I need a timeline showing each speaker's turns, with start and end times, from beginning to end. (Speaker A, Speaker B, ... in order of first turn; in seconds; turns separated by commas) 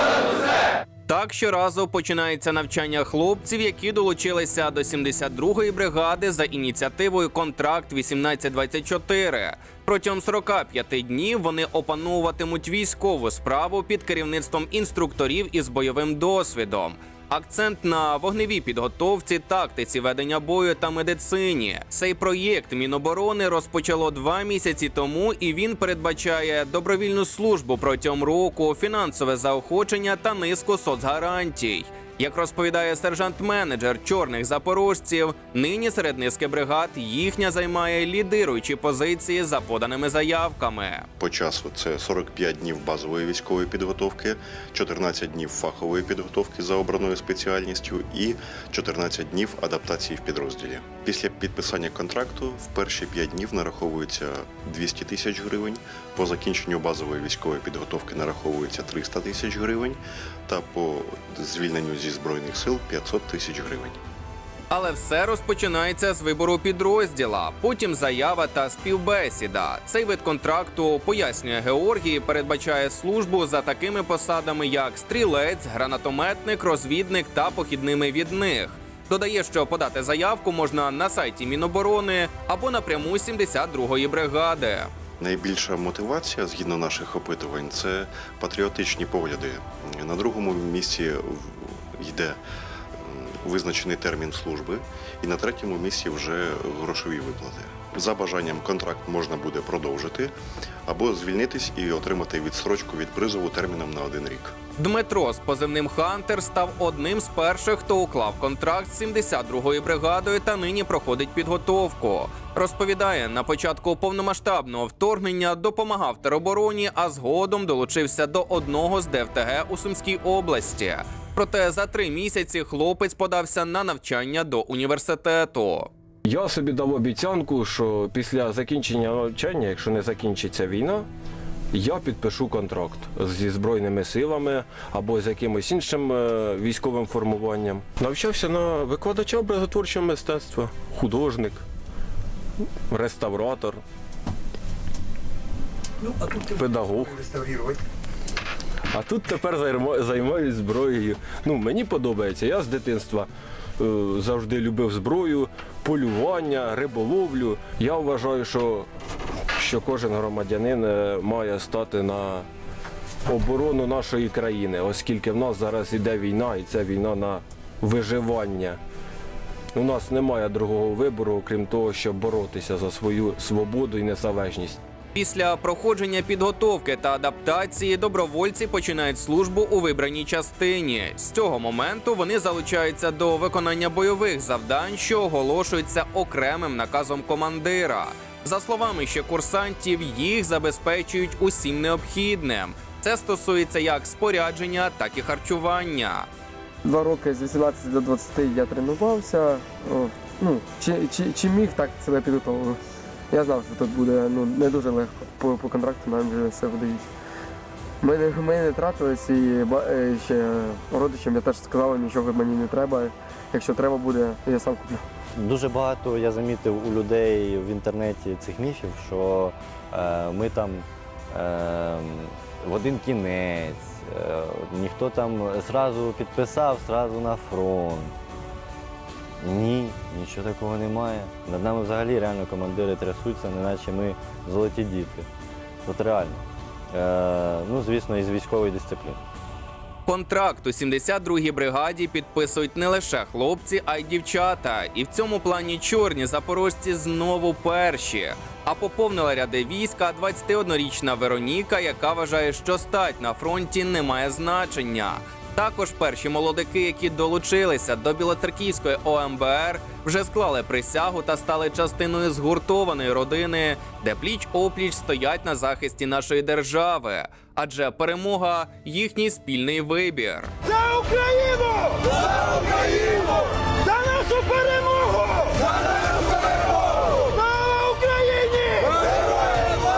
Speaker A: 1.1-41.1, Speaker B: 41.2-64.0, Speaker A: 64.7-84.9, Speaker B: 85.2-92.4, Speaker B: 93.0-100.3, Speaker B: 100.9-104.6, Speaker A: 104.8-125.9, Speaker C: 126.3-131.1, Speaker C: 131.7-141.6, Speaker C: 142.9-143.8, Speaker C: 146.3-147.7, Speaker C: 148.9-158.9, Speaker C: 159.6-162.5, Speaker C: 163.3-168.8, Speaker C: 169.7-174.8, Speaker A: 175.1-196.3, Speaker D: 196.8-202.8, Speaker D: 203.3-207.1, Speaker D: 208.0-215.0, Speaker E: 215.4-228.2, Speaker E: 229.4-235.3, Speaker E: 235.8-239.2, Speaker A: 240.1-270.5, Speaker F: 270.7-275.5, Speaker F: 276.1-279.1